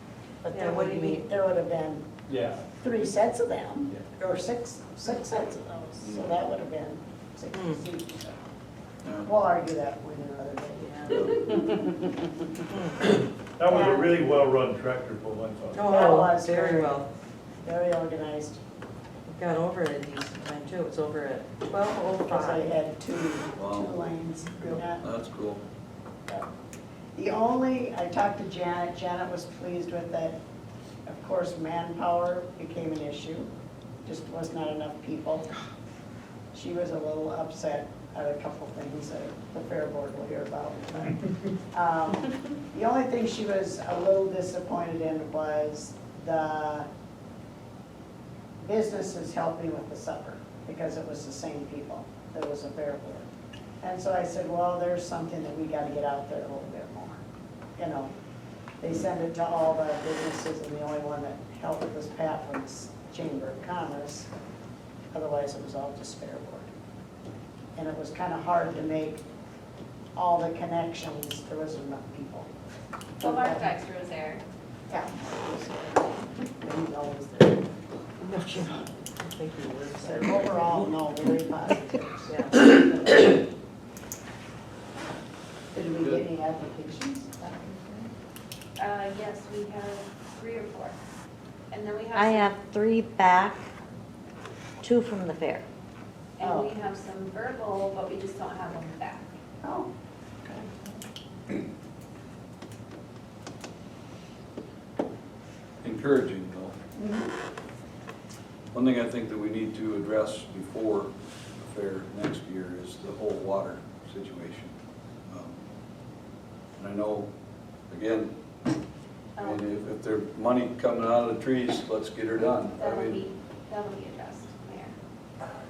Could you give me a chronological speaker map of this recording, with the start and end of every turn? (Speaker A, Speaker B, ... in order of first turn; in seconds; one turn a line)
Speaker A: 0.4-2.1
Speaker B: 0.5-1.3
Speaker C: 2.3-2.6
Speaker A: 2.8-8.3
Speaker D: 6.0-6.4
Speaker B: 7.5-7.8
Speaker A: 9.2-11.7
Speaker B: 10.8-11.3
Speaker D: 11.1-11.6
Speaker B: 12.7-13.0
Speaker C: 13.6-15.9
Speaker A: 13.6-14.2
Speaker B: 15.7-17.1
Speaker A: 15.8-17.0
Speaker A: 17.6-18.6
Speaker B: 19.3-22.7
Speaker A: 22.3-25.1
Speaker D: 23.6-24.1
Speaker D: 24.7-25.6
Speaker A: 27.1-30.4
Speaker A: 31.1-33.5
Speaker A: 34.0-35.5
Speaker A: 36.5-46.9
Speaker A: 48.6-53.3
Speaker A: 53.8-57.2
Speaker A: 57.8-58.1
Speaker A: 58.8-64.3
Speaker A: 65.1-66.7
Speaker A: 67.8-69.2
Speaker A: 70.2-72.5
Speaker A: 73.2-73.7
Speaker E: 73.2-74.4
Speaker A: 74.9-77.7
Speaker B: 78.2-80.9
Speaker A: 80.0-83.4
Speaker B: 82.3-82.6
Speaker A: 85.7-88.1
Speaker E: 88.8-91.0
Speaker E: 91.7-92.5
Speaker F: 92.1-93.7
Speaker F: 94.8-95.6
Speaker E: 96.4-99.3
Speaker A: 96.4-96.8
Speaker A: 99.6-99.9
Speaker A: 100.4-101.0
Speaker D: 105.8-106.8
Speaker A: 107.0-107.3
Speaker D: 108.7-114.7
Speaker D: 115.3-115.6
Speaker D: 116.8-117.3
Speaker D: 117.9-118.3
Speaker E: 119.4-119.7
Speaker D: 119.4-123.2
Speaker E: 122.5-124.9